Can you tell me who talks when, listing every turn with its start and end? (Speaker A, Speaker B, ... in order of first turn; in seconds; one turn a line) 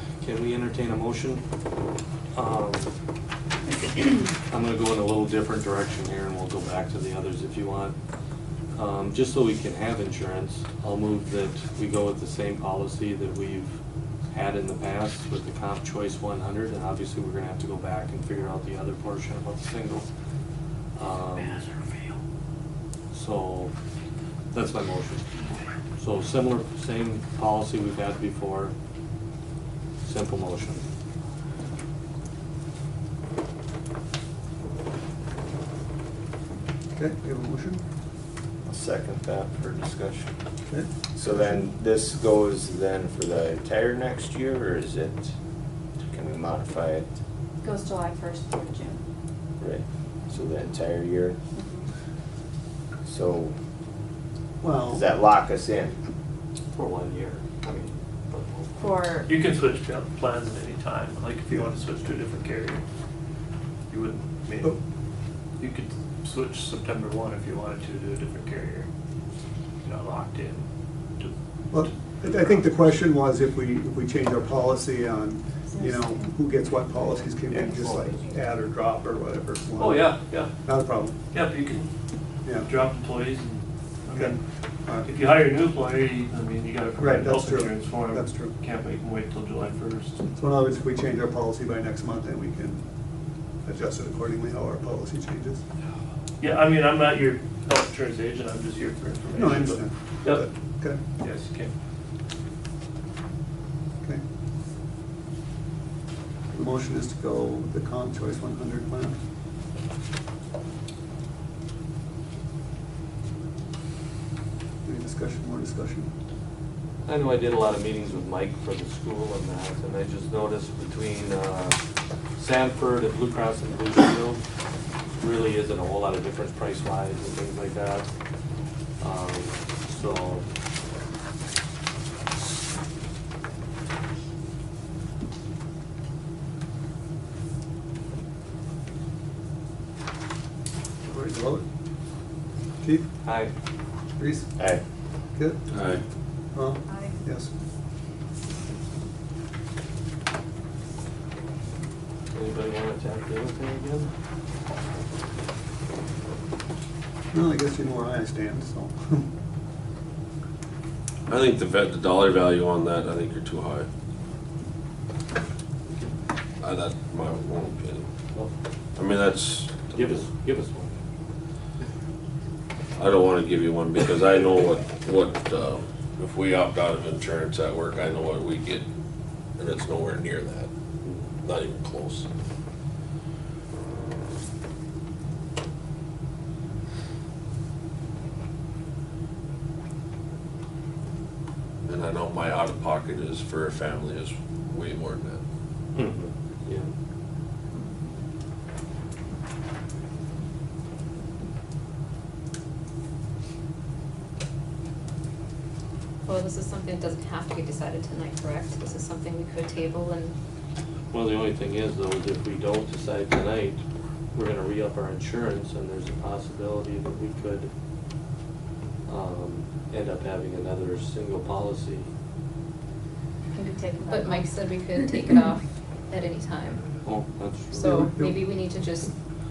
Speaker A: 0.2-1.4
Speaker A: 2.3-2.9
Speaker A: 4.5-7.9
Speaker A: 8.7-13.8
Speaker A: 14.3-20.1
Speaker A: 20.9-21.7
Speaker A: 23.1-23.7
Speaker A: 24.5-25.3
Speaker A: 26.0-28.7
Speaker A: 30.0-30.8
Speaker B: 37.0-37.8
Speaker C: 38.6-40.3
Speaker B: 40.7-41.0
Speaker C: 41.1-45.3
Speaker C: 46.0-47.2
Speaker D: 47.6-49.0
Speaker C: 49.6-51.4
Speaker D: 51.5-51.9
Speaker C: 53.0-53.5
Speaker B: 54.6-55.0
Speaker C: 54.9-56.0
Speaker A: 56.7-58.8
Speaker D: 58.8-59.3
Speaker E: 59.3-62.8
Speaker E: 63.9-64.8
Speaker E: 65.6-68.9
Speaker E: 69.8-70.6
Speaker E: 71.2-72.8
Speaker B: 71.7-80.1
Speaker D: 75.7-76.4
Speaker A: 77.5-78.1
Speaker E: 79.8-80.5
Speaker B: 80.6-81.1
Speaker E: 81.3-81.9
Speaker B: 82.4-82.7
Speaker E: 82.6-84.4
Speaker B: 84.1-85.1
Speaker E: 85.0-90.2
Speaker B: 87.0-88.5
Speaker B: 90.3-92.8
Speaker B: 93.6-95.6
Speaker E: 96.4-100.4
Speaker B: 99.3-101.0
Speaker E: 101.2-101.7
Speaker B: 106.5-109.2
Speaker B: 114.8-116.1
Speaker A: 117.0-121.8
Speaker A: 122.4-124.4
Speaker A: 125.2-128.1
Speaker A: 129.0-130.4
Speaker B: 141.0-141.6
Speaker B: 142.8-143.1
Speaker A: 143.2-143.5
Speaker B: 144.2-144.5
Speaker C: 144.6-144.8
Speaker F: 145.7-146.0
Speaker B: 146.5-147.5
Speaker D: 146.9-147.2
Speaker A: 152.3-154.1
Speaker B: 157.3-159.3
Speaker F: 161.3-163.9
Speaker F: 166.6-168.1
Speaker F: 168.9-170.2
Speaker A: 169.9-170.9
Speaker F: 172.9-178.8
Speaker F: 179.6-180.7
Speaker F: 181.4-182.3
Speaker F: 191.8-195.4
Speaker A: 195.9-196.9
Speaker G: 197.7-198.0
Speaker G: 206.2-210.3
Speaker A: 211.1-213.8
Speaker A: 214.3-217.7
Speaker A: 219.1-222.1
Speaker D: 223.5-225.2
Speaker G: 224.1-227.0
Speaker A: 227.0-228.1
Speaker G: 227.7-229.1
Speaker B: 227.9-228.3